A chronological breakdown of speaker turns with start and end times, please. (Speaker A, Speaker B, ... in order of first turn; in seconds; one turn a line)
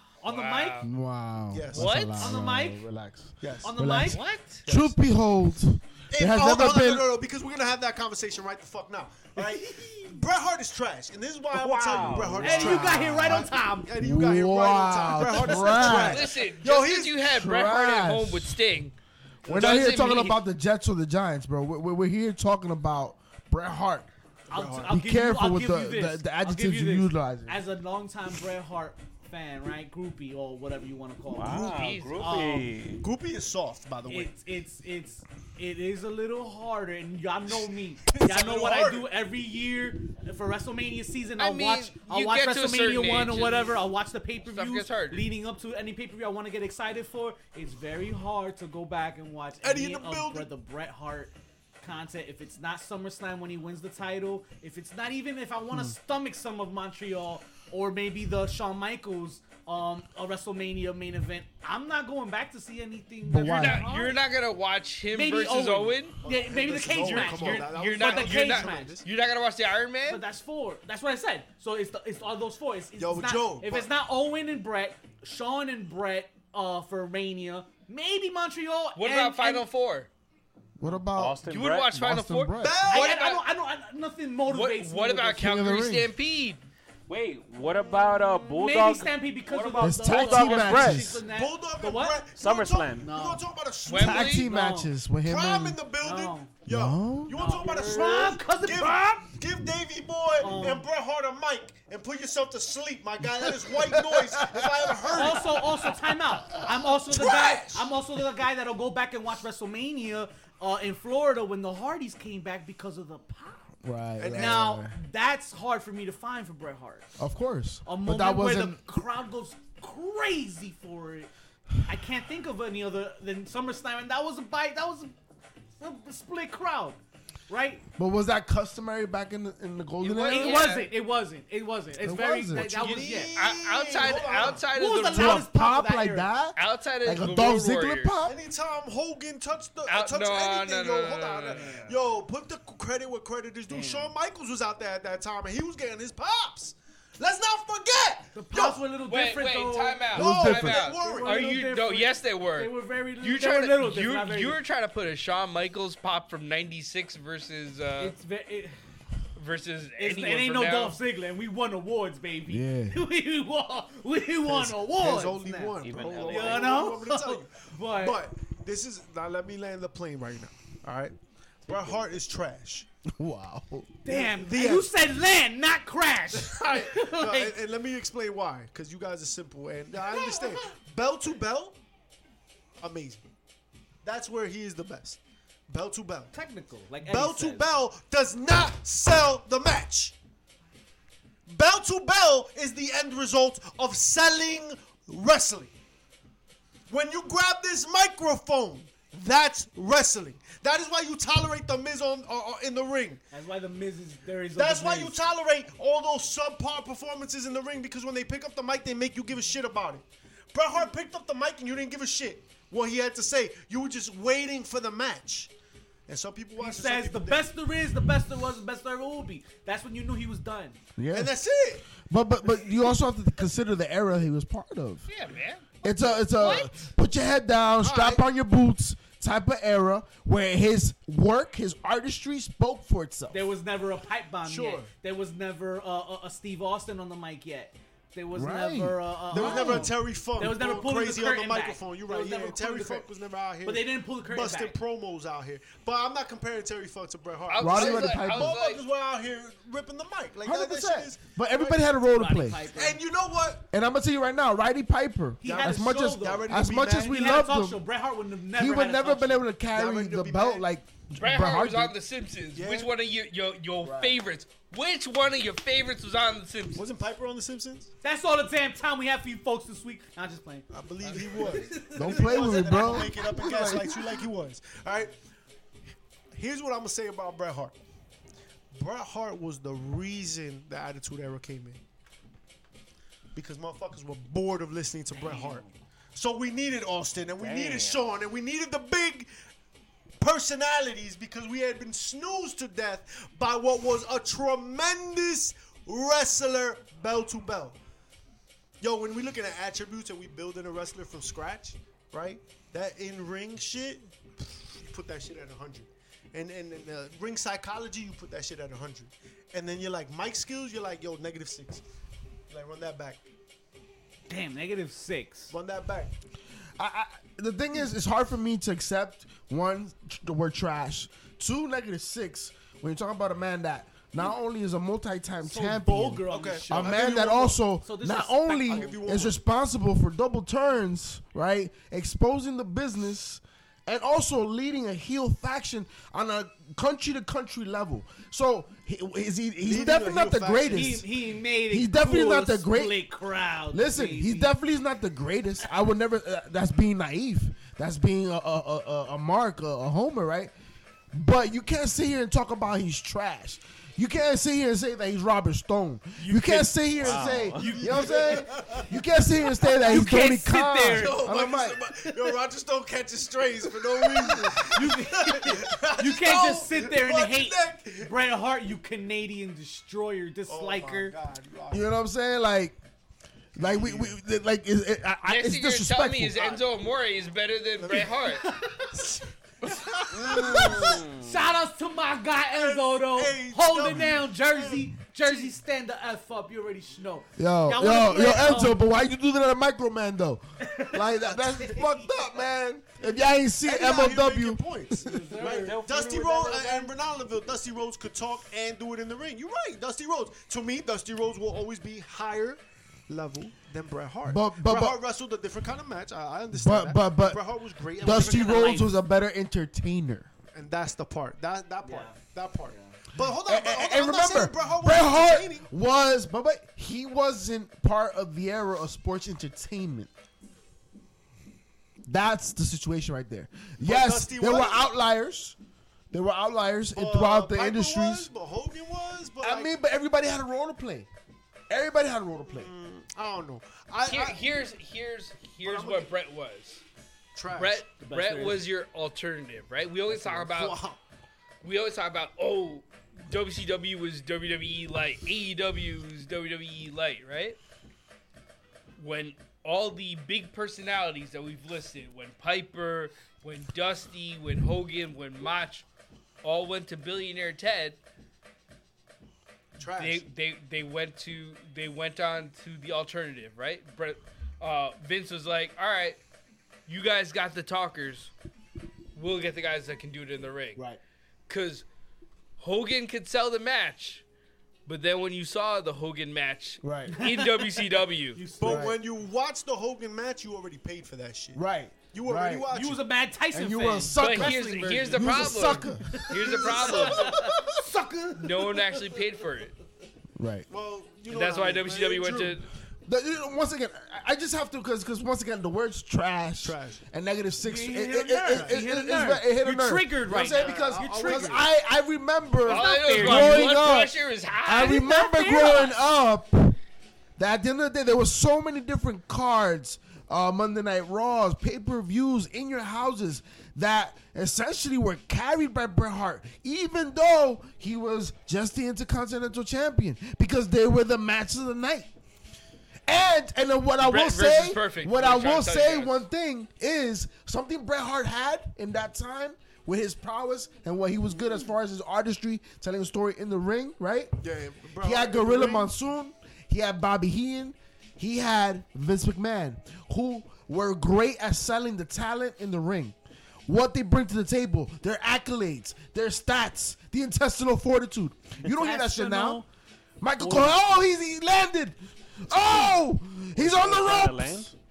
Speaker A: 0.2-0.8
Speaker B: 0.3-0.9
Speaker C: 0.8-7.1
Speaker D: 1.5-1.9
Speaker B: 1.7-2.3
Speaker A: 2.2-2.8
Speaker D: 3.4-3.7
Speaker A: 3.6-4.2
Speaker B: 4.1-4.7
Speaker D: 6.1-17.2
Speaker E: 11.5-12.8
Speaker A: 12.4-13.9
Speaker C: 12.5-16.3
Speaker B: 15.8-18.9
Speaker C: 17.3-18.6
Speaker A: 19.4-19.7
Speaker C: 19.4-24.1
Speaker B: 19.5-20.4
Speaker D: 24.5-25.0
Speaker A: 24.5-32.7
Speaker C: 24.9-27.6
Speaker E: 31.3-33.0
Speaker D: 31.4-32.0
Speaker B: 31.6-32.2
Speaker D: 33.0-34.3
Speaker A: 34.0-64.2
Speaker D: 38.0-39.1
Speaker B: 41.4-43.8
Speaker B: 44.5-45.2
Speaker D: 49.6-50.5
Speaker C: 63.2-63.9
Speaker B: 63.5-66.2
Speaker A: 65.1-69.0
Speaker D: 66.2-69.0
Speaker B: 66.9-70.2
Speaker A: 70.0-79.7
Speaker D: 73.0-73.9
Speaker B: 79.0-80.1
Speaker C: 80.8-82.8
Speaker E: 81.1-81.9
Speaker B: 81.5-83.4
Speaker D: 82.6-83.1
Speaker A: 82.9-85.5
Speaker B: 84.5-86.6
Speaker C: 85.4-86.1
Speaker E: 87.1-91.2
Speaker A: 88.5-92.2
Speaker C: 89.8-91.2
Speaker D: 91.2-94.4
Speaker E: 92.3-93.1
Speaker A: 93.0-93.4
Speaker B: 93.8-94.4
Speaker C: 93.9-95.8
Speaker A: 94.2-94.9
Speaker D: 95.2-105.6
Speaker A: 96.0-96.5
Speaker C: 96.7-97.4
Speaker A: 97.3-99.3
Speaker A: 100.4-100.9
Speaker C: 103.4-105.6
Speaker A: 105.1-113.7
Speaker D: 106.9-107.9
Speaker C: 113.8-115.0
Speaker D: 114.2-114.7
Speaker A: 114.3-117.1
Speaker C: 117.2-118.8
Speaker A: 117.8-121.3
Speaker A: 121.8-125.1
Speaker A: 125.8-127.8
Speaker C: 128.0-130.7
Speaker B: 130.0-130.9
Speaker A: 130.2-133.4
Speaker C: 132.0-132.8
Speaker D: 132.5-134.6
Speaker B: 132.8-135.5
Speaker A: 133.9-136.3
Speaker C: 135.0-138.3
Speaker B: 136.6-138.2
Speaker D: 138.2-148.8
Speaker B: 139.9-141.9
Speaker A: 141.5-141.9
Speaker A: 143.7-144.1
Speaker A: 148.3-150.1
Speaker B: 149.1-158.1
Speaker C: 150.1-150.9
Speaker D: 150.1-151.4
Speaker A: 150.8-154.6
Speaker A: 158.0-158.8
Speaker B: 159.3-161.0
Speaker A: 160.0-168.2
Speaker C: 162.5-163.0
Speaker D: 164.4-172.9
Speaker E: 165.8-167.0
Speaker C: 173.1-173.9
Speaker A: 174.0-177.5
Speaker D: 174.1-174.9
Speaker D: 176.3-181.8
Speaker A: 180.1-180.6
Speaker D: 182.8-183.2
Speaker D: 184.0-186.3
Speaker A: 186.3-187.7
Speaker D: 187.0-190.1
Speaker D: 191.5-195.7
Speaker D: 196.9-203.2
Speaker A: 203.3-205.2
Speaker D: 204.6-215.5
Speaker D: 216.1-217.5
Speaker A: 216.6-220.8
Speaker C: 220.9-221.3
Speaker D: 221.1-221.9
Speaker C: 222.0-225.1
Speaker B: 225.1-226.7
Speaker C: 225.8-233.4
Speaker D: 226.1-226.5
Speaker D: 227.8-228.2
Speaker A: 233.3-243.1
Speaker D: 234.4-234.9
Speaker C: 238.3-239.9
Speaker D: 239.3-251.8
Speaker A: 243.6-244.8
Speaker B: 247.5-248.8
Speaker C: 247.6-248.6
Speaker C: 250.4-252.7
Speaker A: 252.1-253.0
Speaker D: 252.7-253.6
Speaker C: 253.7-257.8
Speaker A: 255.4-259.4
Speaker D: 255.4-257.2
Speaker C: 258.5-261.9
Speaker D: 259.7-260.6
Speaker B: 261.2-266.8
Speaker D: 262.5-262.9
Speaker C: 263.8-264.1
Speaker D: 266.7-267.9
Speaker A: 268.0-273.3
Speaker D: 270.7-275.1
Speaker C: 271.9-274.1
Speaker D: 276.3-277.7
Speaker D: 278.7-281.8
Speaker D: 283.3-289.3
Speaker E: 285.1-285.6
Speaker E: 287.4-288.0
Speaker D: 290.2-297.8
Speaker D: 298.8-311.8
Speaker D: 312.5-313.2
Speaker A: 314.3-315.5
Speaker D: 315.5-316.1
Speaker C: 316.8-341.1
Speaker A: 325.4-327.1
Speaker D: 326.3-327.6
Speaker A: 327.8-329.0
Speaker D: 328.7-329.4
Speaker D: 339.6-341.0
Speaker A: 340.7-344.5
Speaker C: 341.7-343.0
Speaker C: 343.7-350.5
Speaker C: 351.1-361.8
Speaker A: 356.2-358.5
Speaker E: 357.0-357.7
Speaker D: 357.1-358.9
Speaker A: 359.4-361.2
Speaker D: 360.8-368.1
Speaker A: 364.0-371.1
Speaker D: 370.5-371.9
Speaker C: 371.7-372.8
Speaker D: 373.6-374.2
Speaker C: 373.6-376.4
Speaker B: 375.3-378.4
Speaker D: 376.4-376.6
Speaker D: 377.8-378.2
Speaker A: 378.3-379.1
Speaker D: 378.9-381.0
Speaker A: 380.1-388.8
Speaker E: 380.1-381.4
Speaker D: 382.5-385.5
Speaker C: 387.4-395.1
Speaker A: 390.6-392.3
Speaker D: 393.6-408.9
Speaker A: 395.0-395.9
Speaker E: 395.4-396.9
Speaker C: 404.2-405.0
Speaker C: 406.5-407.4
Speaker C: 408.0-410.3
Speaker A: 408.0-408.9
Speaker D: 410.5-415.7
Speaker A: 411.8-413.0
Speaker C: 413.4-420.1
Speaker C: 422.1-425.5
Speaker D: 423.8-424.9
Speaker C: 426.1-428.3
Speaker D: 426.9-429.7
Speaker C: 429.4-431.1
Speaker C: 431.7-432.7
Speaker D: 432.5-434.4
Speaker B: 434.1-436.8
Speaker D: 435.6-436.1
Speaker D: 437.3-437.8
Speaker B: 437.5-440.8
Speaker A: 438.0-438.7
Speaker D: 440.1-441.0
Speaker B: 441.6-447.6
Speaker B: 449.0-455.8
Speaker B: 456.4-458.0
Speaker D: 459.8-460.2
Speaker B: 460.0-466.2
Speaker B: 466.9-468.3
Speaker B: 469.1-470.8
Speaker B: 471.5-471.8
Speaker B: 472.6-474.2
Speaker B: 474.9-478.4
Speaker C: 476.8-477.3
Speaker A: 477.1-478.9
Speaker D: 478.6-483.0
Speaker C: 478.6-479.0
Speaker C: 481.5-482.7
Speaker A: 482.7-489.1
Speaker C: 483.5-486.3
Speaker B: 484.2-487.5
Speaker D: 486.3-487.5
Speaker B: 488.4-489.7
Speaker C: 490.4-490.7
Speaker D: 490.7-492.6
Speaker B: 491.3-492.7
Speaker C: 493.1-504.1
Speaker D: 496.6-497.0
Speaker A: 497.6-501.6
Speaker D: 498.5-498.8
Speaker D: 500.3-501.6
Speaker B: 502.6-505.2
Speaker E: 502.7-503.7
Speaker C: 504.6-506.8
Speaker A: 504.8-506.0
Speaker C: 507.4-522.1
Speaker C: 523.1-534.3
Speaker B: 524.0-526.2
Speaker D: 534.4-535.9
Speaker C: 535.0-543.1
Speaker C: 543.6-549.6
Speaker A: 548.6-549.6
Speaker C: 550.2-554.7
Speaker A: 550.4-550.8
Speaker E: 553.5-554.7